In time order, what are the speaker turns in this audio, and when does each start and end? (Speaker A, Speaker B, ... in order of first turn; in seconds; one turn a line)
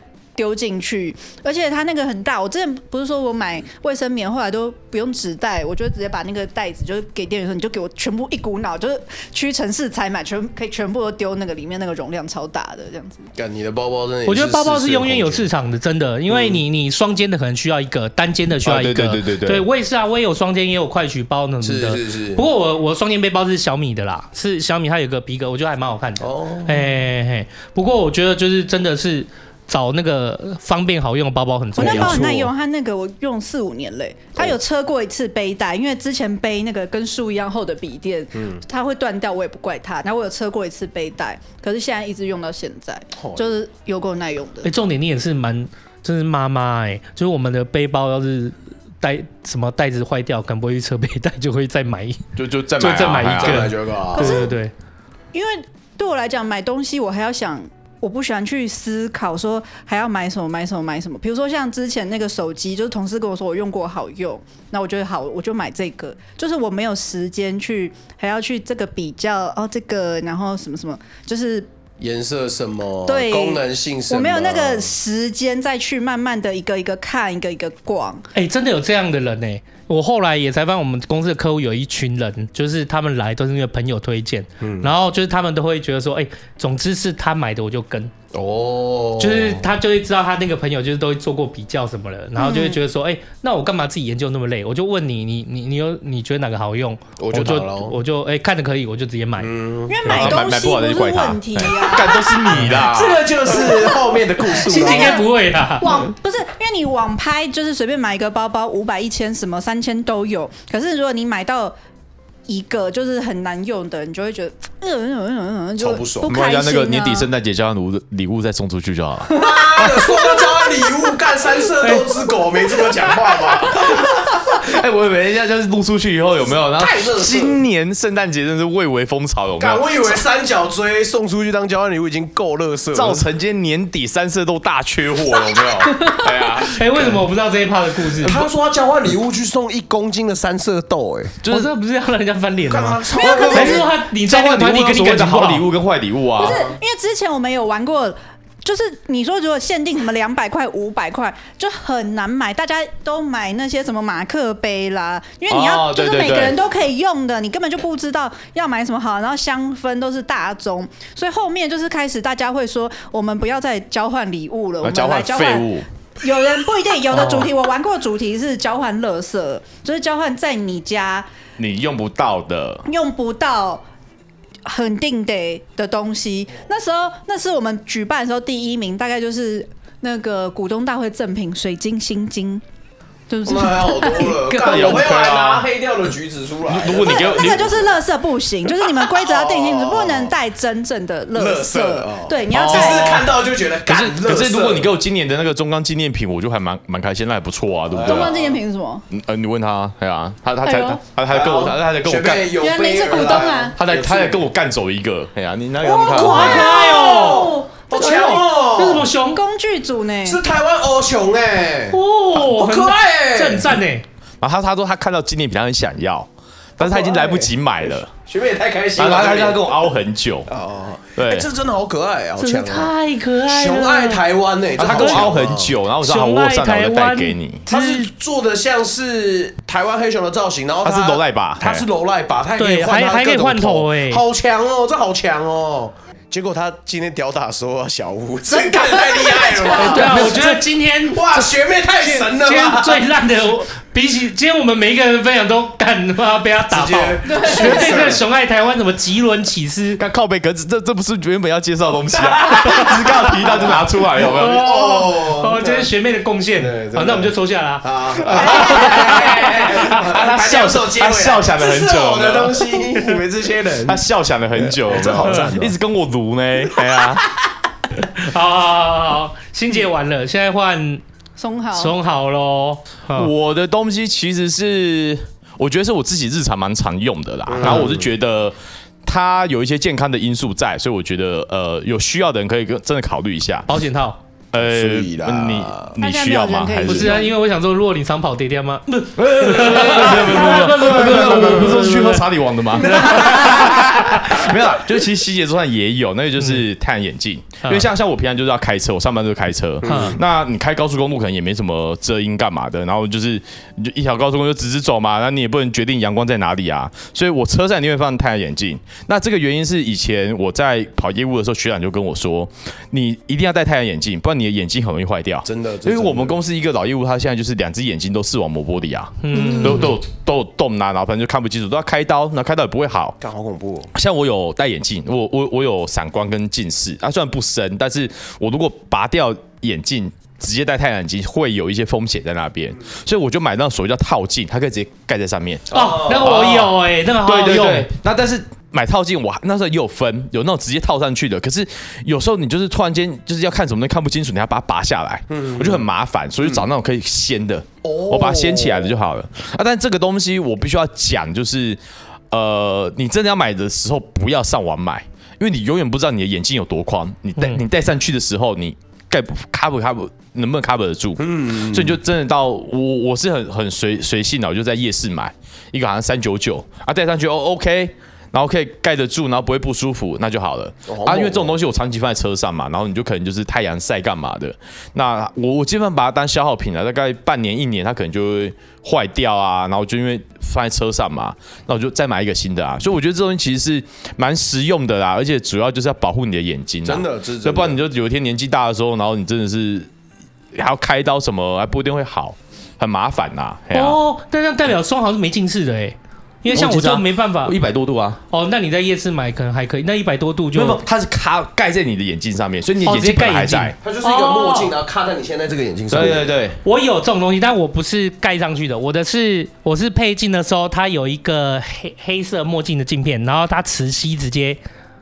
Speaker A: 0.3-13.3
Speaker B: 13.3-15.5
Speaker C: 14.2-32.2
Speaker B: 16.3-16.6
Speaker D: 18.6-19.6
Speaker B: 21.6-22.4
Speaker B: 26.2-26.9
Speaker B: 31.8-32.5
Speaker D: 31.8-32.4
Speaker A: 31.8-44.7
Speaker B: 43.2-43.5
Speaker C: 44.6-54.7
Speaker D: 52.4-53.7
Speaker B: 53.3-54.5
Speaker A: 54.1-54.5
Speaker A: 55.3-71.7
Speaker B: 72.0-74.9
Speaker A: 73.0-78.3
Speaker C: 78.3-88.1
Speaker B: 84.6-84.9
Speaker B: 88.3-89.7
Speaker C: 89.2-99.5
Speaker A: 92.3-92.8
Speaker B: 97.2-98.0
Speaker B: 99.4-100.2
Speaker A: 99.9-102.6
Speaker D: 100.0-103.3
Speaker C: 102.5-102.8
Speaker B: 102.6-105.2
Speaker A: 103.5-111.8
Speaker C: 104.7-106.1
Speaker A: 112.5-117.3
Speaker B: 115.8-116.3
Speaker D: 116.3-120.0
Speaker A: 119.3-121.0
Speaker B: 119.3-124.1
Speaker D: 123.7-130.1
Speaker B: 126.5-127.6
Speaker B: 129.6-133.2
Speaker D: 132.9-137.2
Speaker C: 136.0-138.3
Speaker B: 138.2-141.4
Speaker D: 141.4-141.7
Speaker C: 141.5-145.7
Speaker B: 142.7-143.9
Speaker A: 143.1-143.8
Speaker D: 144.1-146.6
Speaker A: 146.4-165.7
Speaker B: 146.5-146.7
Speaker D: 155.5-156.6
Speaker D: 164.8-165.8
Speaker A: 166.2-171.3
Speaker D: 167.1-167.5
Speaker D: 171.6-172.8
Speaker A: 172.9-173.8
Speaker A: 174.6-182.6
Speaker A: 183.3-185.1
Speaker B: 183.4-187.9
Speaker D: 184.6-185.7
Speaker D: 186.7-187.8
Speaker A: 187.0-193.2
Speaker B: 188.9-190.3
Speaker B: 191.3-194.9
Speaker D: 192.5-193.3
Speaker D: 193.8-198.4
Speaker B: 197.9-198.6
Speaker A: 198.0-199.0
Speaker D: 199.1-202.5
Speaker A: 200.6-201.0
Speaker B: 201.3-204.5
Speaker A: 202.6-203.8
Speaker D: 203.1-206.8
Speaker B: 205.8-209.1
Speaker A: 206.0-208.4
Speaker C: 206.1-209.4
Speaker A: 209.3-210.4
Speaker B: 210.2-213.8
Speaker C: 211.9-214.0
Speaker D: 214.4-218.1
Speaker B: 216.8-219.9
Speaker D: 218.9-220.5
Speaker B: 220.5-222.9
Speaker D: 221.2-221.5
Speaker C: 222.4-224.2
Speaker B: 223.4-225.7
Speaker D: 224.8-227.7
Speaker C: 224.8-225.3
Speaker C: 226.0-228.1
Speaker B: 227.7-243.0
Speaker D: 230.8-231.8
Speaker C: 232.6-234.2
Speaker A: 238.5-240.2
Speaker C: 239.7-250.0
Speaker B: 246.7-248.2
Speaker A: 247.3-248.0
Speaker D: 250.0-254.7
Speaker B: 252.1-255.9
Speaker C: 254.2-259.9
Speaker B: 256.6-264.0
Speaker D: 258.2-262.8
Speaker A: 258.3-259.3
Speaker D: 263.8-267.3
Speaker B: 264.6-265.8
Speaker C: 268.0-271.0
Speaker A: 271.4-271.9
Speaker C: 271.7-273.3
Speaker D: 273.1-283.7
Speaker B: 277.5-278.1
Speaker C: 283.7-284.2
Speaker D: 284.5-287.3
Speaker B: 284.6-285.9
Speaker A: 286.0-287.3
Speaker C: 286.9-292.3
Speaker B: 289.2-291.8
Speaker D: 289.2-323.2
Speaker B: 292.7-294.6
Speaker C: 292.8-294.5
Speaker C: 296.4-296.6
Speaker C: 297.6-297.9
Speaker B: 299.8-300.2
Speaker C: 299.8-300.2
Speaker B: 315.4-316.4
Speaker C: 319.2-319.9
Speaker A: 319.3-319.6
Speaker B: 323.2-323.9
Speaker D: 323.9-351.8
Speaker B: 335.7-336.5
Speaker C: 335.7-337.9
Speaker B: 345.3-345.8
Speaker B: 347.8-348.9
Speaker D: 352.3-389.9
Speaker C: 357.4-357.6
Speaker B: 361.2-362.0
Speaker B: 370.9-371.5
Speaker B: 386.8-387.8
Speaker D: 390.5-394.0
Speaker C: 393.7-397.5
Speaker D: 396.5-398.2
Speaker C: 398.3-400.8
Speaker D: 400.5-403.8
Speaker C: 402.8-404.8
Speaker B: 403.8-406.3
Speaker D: 405.9-406.6
Speaker C: 406.6-414.6